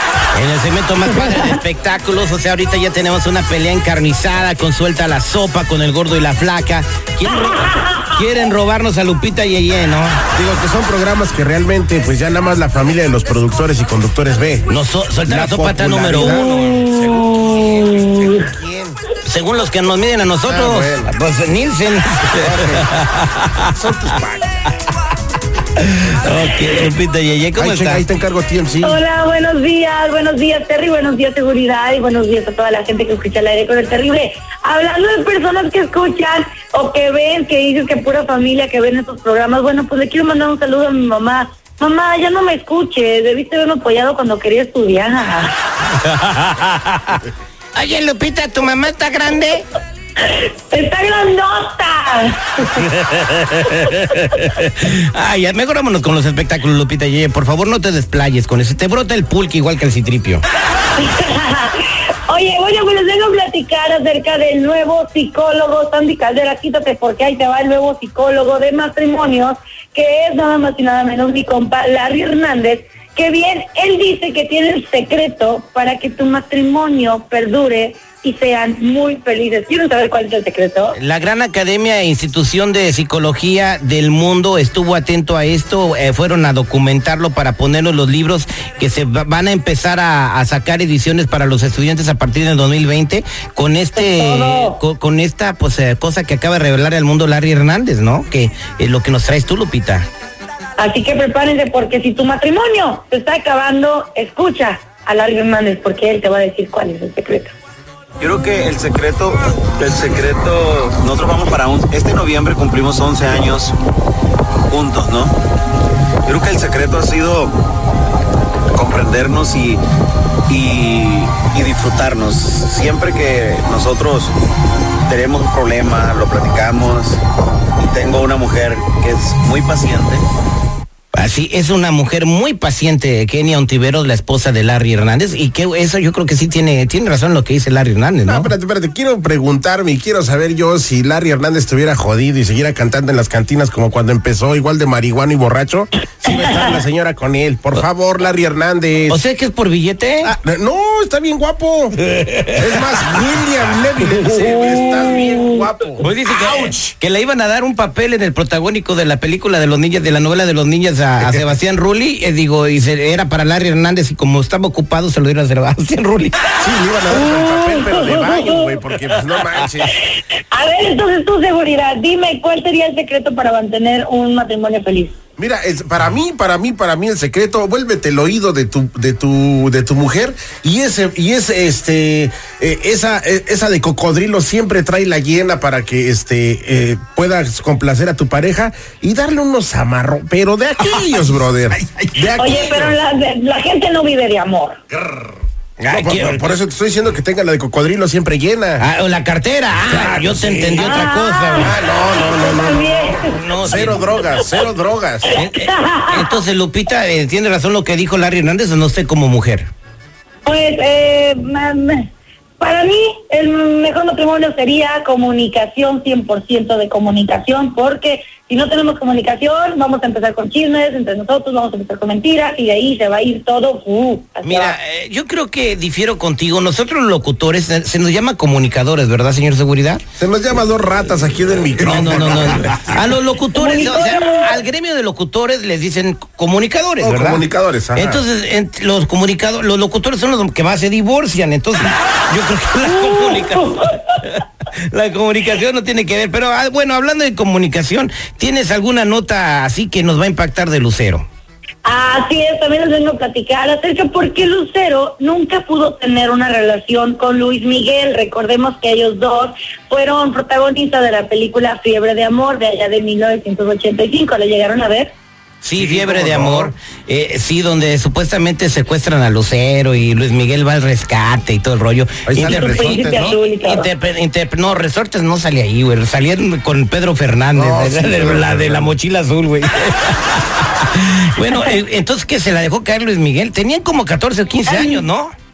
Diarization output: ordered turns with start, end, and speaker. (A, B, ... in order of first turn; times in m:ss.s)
0:00.3-0:10.2 A
0:07.5-0:08.1 B
0:10.4-0:14.7 C
0:14.7-0:17.5 A
0:15.2-0:19.0 C
0:16.2-0:18.5 B
0:19.2-0:23.7 A
0:20.5-0:21.1 C
0:22.4-0:22.9 C
0:23.7-0:24.6 C
0:25.8-0:28.0 A
0:27.6-0:29.0 C
0:28.8-0:45.6 B
0:46.0-0:47.2 A
0:47.8-0:49.7 A
0:50.2-0:52.9 B
0:52.8-1:00.4 A
1:00.9-1:21.0 B
1:21.0-1:40.1 A
1:34.0-1:34.8 B
1:40.8-1:47.5 B
1:48.2-1:53.7 D
1:54.7-1:55.4 D
1:56.3-1:57.6 D
1:58.7-1:59.8 D
2:00.5-2:04.3 D
2:05.1-2:07.2 D
2:07.8-2:10.2 D
2:11.1-2:18.5 A
2:18.3-2:29.2 C
2:29.1-2:30.3 A
2:30.2-2:32.0 C
2:32.2-2:32.6 A
2:32.6-2:36.1 C
2:34.3-2:35.6 B
2:36.0-2:46.6 A
2:46.6-2:49.9 C
2:47.1-2:48.7 B
2:49.9-2:55.2 B
2:55.4-3:12.9 C
3:11.0-3:11.2 A
3:12.4-3:14.8 B
3:15.8-3:16.5 A
3:15.9-3:18.8 C
3:18.8-3:21.8 A
3:19.9-3:25.4 C
3:20.8-3:23.4 B
3:23.3-3:24.0 A
3:25.4-3:29.7 A
3:25.4-3:26.4 B
3:30.4-3:44.8 B
3:44.4-3:50.0 A
3:50.2-3:52.8 C
3:51.8-4:11.2 A
3:53.6-3:54.5 B
3:57.0-3:58.2 C
4:02.9-4:04.0 B
4:11.8-4:25.1 B
4:25.6-4:45.3 A
4:25.8-4:26.7 C
4:32.3-4:33.4 C
4:32.4-4:33.9 B
4:37.6-4:39.0 C
4:44.7-4:45.0 B